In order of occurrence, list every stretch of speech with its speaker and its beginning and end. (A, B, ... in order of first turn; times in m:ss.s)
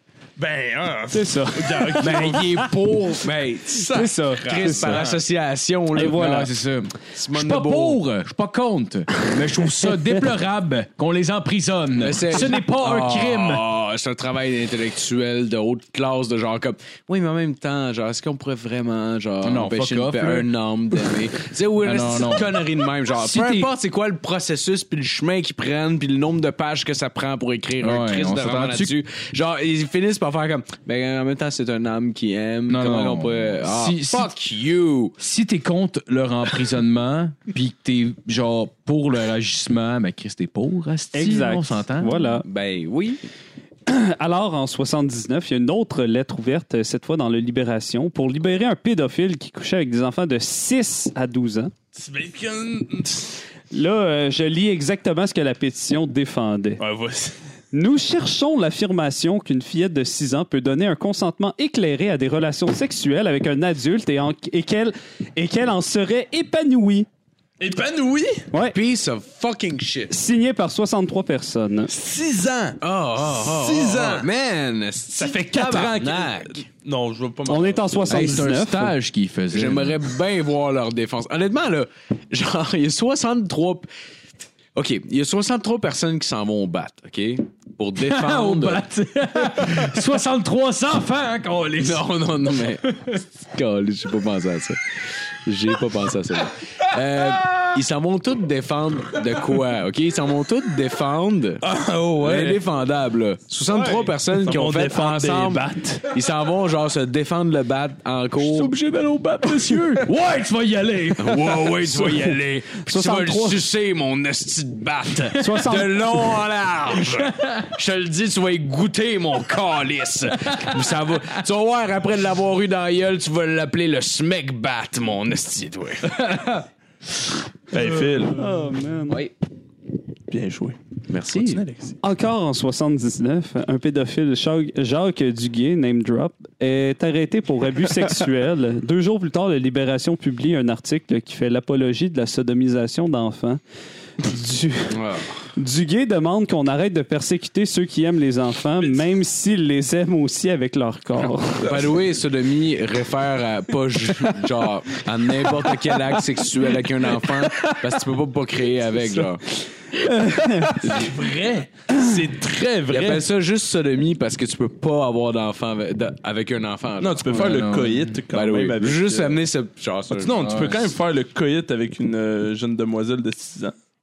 0:00.4-0:02.6 A
0:01.1-0:02.5 B
0:02.0-0:06.4 C
0:03.9-0:05.0 B
0:04.3-0:05.2 A
0:06.0-0:06.5 B
0:06.0-0:13.6 D
0:07.1-0:08.0 C
0:12.0-0:35.2 C
0:19.4-0:20.5 D
0:21.8-0:22.6 D
0:23.2-0:23.7 D
0:27.8-0:28.9 D
0:32.7-0:34.3 D
0:35.2-0:42.4 D
0:41.1-0:42.4 B
0:42.4-0:43.2 C
0:43.9-0:51.7 B
0:51.9-0:53.4 A
0:53.7-0:56.8 B
0:56.8-0:57.3 A
0:57.7-1:07.1 B
1:07.6-1:08.5 A
1:08.5-1:08.8 B
1:08.7-1:10.1 C
1:10.1-1:11.9 B
1:11.9-1:14.3 A
1:12.8-1:16.6 C
1:15.1-1:18.4 A
1:17.5-1:18.9 B
1:18.1-1:20.0 D
1:19.5-1:23.9 C
1:24.7-1:28.8 C
1:28.0-1:32.0 D
1:31.8-1:34.8 C
1:35.4-1:41.6 C
1:41.6-1:42.6 A
1:42.2-1:48.7 C
1:43.7-1:46.1 A
1:48.4-1:51.5 A
1:50.0-1:51.2 D
1:51.2-2:06.3 C
1:52.8-1:53.6 B
1:55.4-1:56.0 B
2:06.2-2:06.6 D
2:07.7-2:08.4 A
2:08.3-2:09.2 B
2:10.3-2:10.8 A
2:11.1-2:11.6 C
2:11.3-2:12.0 A
2:12.0-2:23.6 B
2:24.2-2:25.0 B
2:24.9-2:25.3 C
2:25.6-2:31.8 B
2:31.6-2:39.4 C
2:40.0-2:43.2 A
2:40.1-2:40.8 B
2:40.8-2:41.2 C
2:42.9-2:47.7 C
2:47.0-2:49.4 A
2:47.3-2:48.1 D
2:48.3-2:50.6 C
2:50.1-2:53.7 A
2:50.4-2:50.8 D